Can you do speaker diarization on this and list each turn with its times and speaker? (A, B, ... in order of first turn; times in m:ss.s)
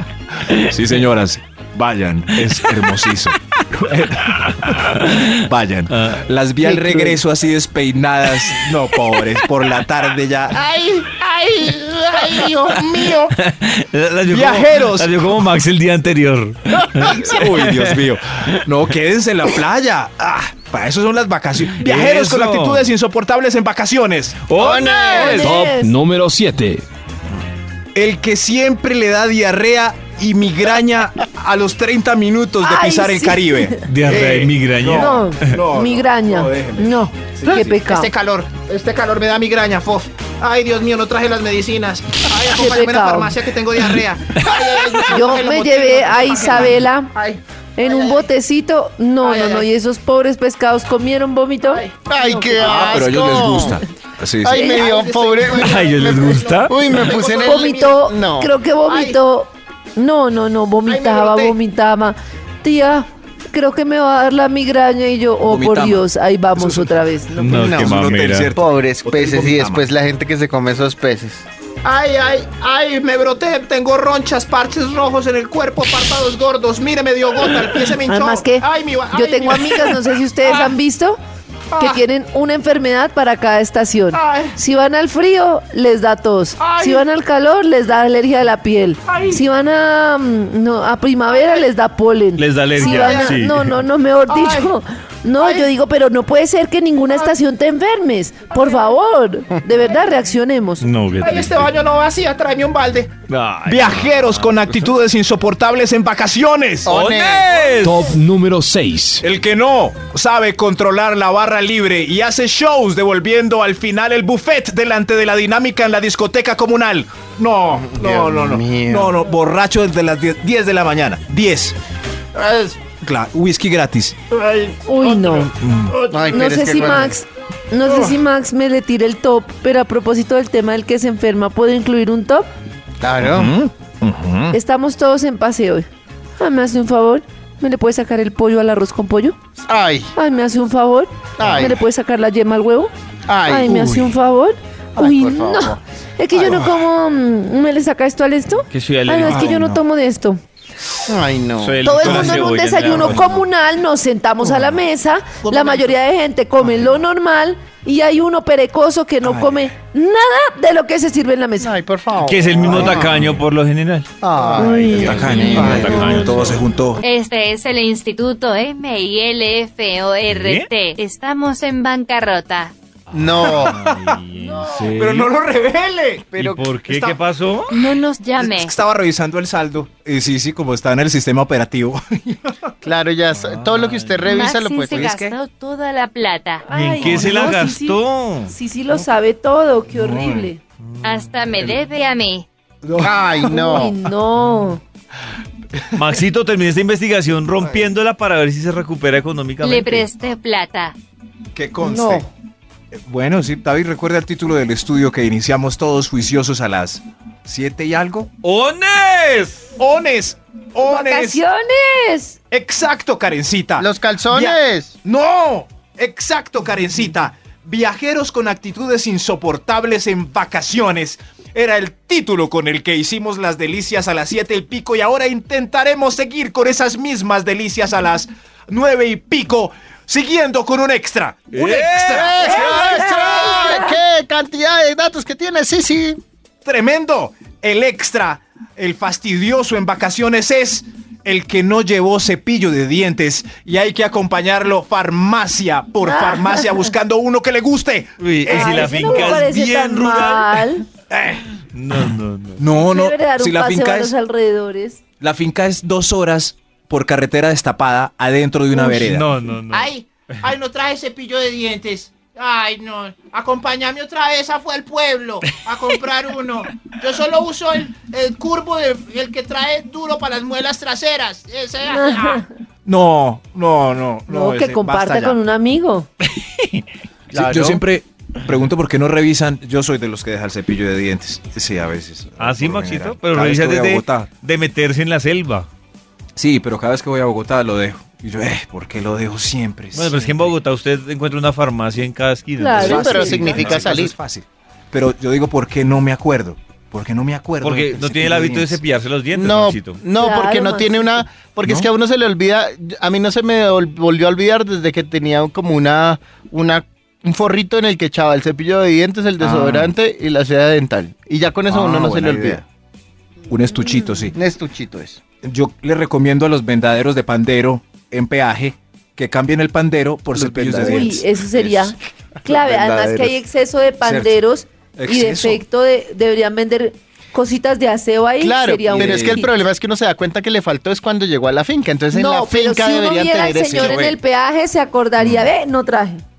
0:00.4-0:10.6 A
0:04.6-0:05.3 B
0:05.9-0:06.2 B
0:10.5-0:13.4 C
0:13.4-0:18.0 B
0:14.3-0:15.2 A
0:17.0-0:24.4 A
0:21.7-0:22.9 B
0:24.5-0:25.5 B
0:24.6-0:25.5 D
0:24.8-0:25.9 E
0:25.3-0:26.8 F
0:27.9-0:37.8 A
0:32.6-0:33.8 E
0:33.8-0:35.6 B
0:34.9-0:38.1 E
0:37.8-0:48.3 C
0:42.5-0:43.4 E
0:44.4-0:44.9 B
0:45.0-0:47.1 E
0:47.8-0:52.8 E
0:49.2-0:49.7 C
0:51.6-0:52.0 C
0:52.0-0:53.8 D
0:52.6-0:54.8 A
0:54.4-0:58.5 D
0:54.5-0:54.8 E
0:54.6-0:58.0 C
0:55.5-0:56.7 B
0:57.3-1:07.6 E
0:58.8-0:59.2 C
1:00.8-1:01.6 C
1:05.5-1:07.0 A
1:07.4-1:08.5 B
1:07.5-1:08.0 D
1:07.6-1:09.8 A
1:08.5-1:11.4 D
1:11.8-1:20.7 C
1:18.0-1:21.2 E
1:21.7-1:22.0 C
1:21.8-1:40.9 E
1:24.1-1:24.6 C
1:26.6-1:27.0 C
1:29.1-1:29.4 C
1:31.3-1:31.6 C
1:32.4-1:33.8 B
1:32.8-1:33.4 C
1:34.3-1:34.7 C
1:35.4-1:35.7 C
1:38.6-1:38.9 C
1:40.8-1:41.7 B
1:41.2-1:43.1 C
1:43.3-1:44.9 B
1:43.7-1:46.9 A
1:46.8-1:47.5 D
1:46.9-1:48.1 B
1:47.8-1:49.2 F
1:49.2-2:01.7 A
1:57.7-1:59.2 D
2:02.4-2:02.8 C
2:03.0-2:04.2 A
2:04.3-2:06.3 C
2:04.8-2:05.5 E
2:05.6-2:06.0 A
2:06.1-2:07.1 D
2:06.2-2:12.5 E
2:13.0-2:13.5 D
2:13.2-2:14.6 A
2:14.5-2:15.9 E
2:16.4-2:19.4 E
2:19.6-2:20.1 D
2:20.1-2:22.9 E
2:21.4-2:21.8 D
2:23.3-2:24.0 D
2:23.4-2:30.4 E
2:23.7-2:24.0 A
2:25.0-2:25.8 D
2:28.7-2:29.8 B
2:29.3-2:29.6 A
2:31.1-2:32.2 D
2:31.6-2:33.4 B
2:31.8-2:41.7 E
2:32.0-2:32.4 A
2:35.4-2:36.0 C
2:39.2-2:39.7 A
2:41.6-2:43.2 D
2:42.2-2:44.1 B
2:42.7-2:43.4 A
2:44.2-2:46.3 D
2:44.6-2:45.9 E
2:44.6-2:47.0 A
2:45.0-2:46.6 B
2:47.0-2:52.7 G
2:50.3-2:50.7 B
2:53.1-2:55.3 B
2:53.1-2:53.8 D
2:53.5-2:54.2 A
2:54.4-2:54.8 E
2:54.9-2:57.2 A
2:56.4-2:57.8 B
2:57.7-2:58.8 G
2:58.4-3:02.7 A
3:02.8-3:05.1 D
3:03.3-3:04.3 B
3:04.2-3:06.6 G
3:04.9-3:05.3 A
3:06.7-3:10.6 E
3:06.7-3:08.5 B
3:09.9-3:10.5 A
3:10.9-3:11.3 B
3:11.0-3:12.5 G
3:12.8-3:13.9 A
3:13.0-3:13.9 D
3:13.4-3:14.8 E
3:15.9-3:20.1 B
3:19.6-3:20.9 G
3:21.5-3:22.3 A
3:21.8-3:22.3 E
3:23.0-3:28.3 A
3:28.4-3:29.7 B
3:29.8-3:31.4 A
3:30.8-3:32.4 E
3:32.5-3:53.7 A
3:33.8-3:34.9 D
3:51.5-3:52.4 B
3:52.1-3:56.2 D
3:52.4-3:54.0 E
3:56.6-4:09.4 A
4:06.0-4:06.7 E
4:08.2-4:10.6 B
4:08.5-4:10.8 E
4:11.1-4:11.5 A
4:11.7-4:12.6 B
4:12.6-4:14.1 A
4:12.8-4:15.0 E
4:15.2-4:19.3 A
4:18.7-4:19.9 B
4:19.7-4:32.4 C
4:31.8-4:32.4 E
4:32.8-4:35.4 A
4:34.3-4:36.1 E
4:36.3-4:36.8 B
4:37.3-4:37.8 D
4:37.3-4:44.3 A
4:42.4-4:45.7 B
4:46.4-4:50.5 A
4:49.9-4:53.1 B
4:52.6-4:53.6 E
4:52.8-4:54.1 D
4:52.8-4:58.8 A
4:57.6-5:00.0 B
4:59.3-5:12.6 D
5:00.1-5:01.2 E
5:09.4-5:09.9 A
5:11.7-5:12.6 A
5:13.5-5:14.4 A
5:13.9-5:14.2 E
5:14.3-5:15.2 D
5:15.4-5:21.9 A
5:20.3-5:21.2 D
5:20.8-5:29.5 E
5:22.4-5:23.3 D
5:24.0-5:24.4 A
5:25.0-5:25.6 A
5:28.4-5:34.1 D
5:28.9-5:29.4 A
5:32.1-5:36.2 E
5:33.6-5:34.2 A
5:35.2-5:35.5 A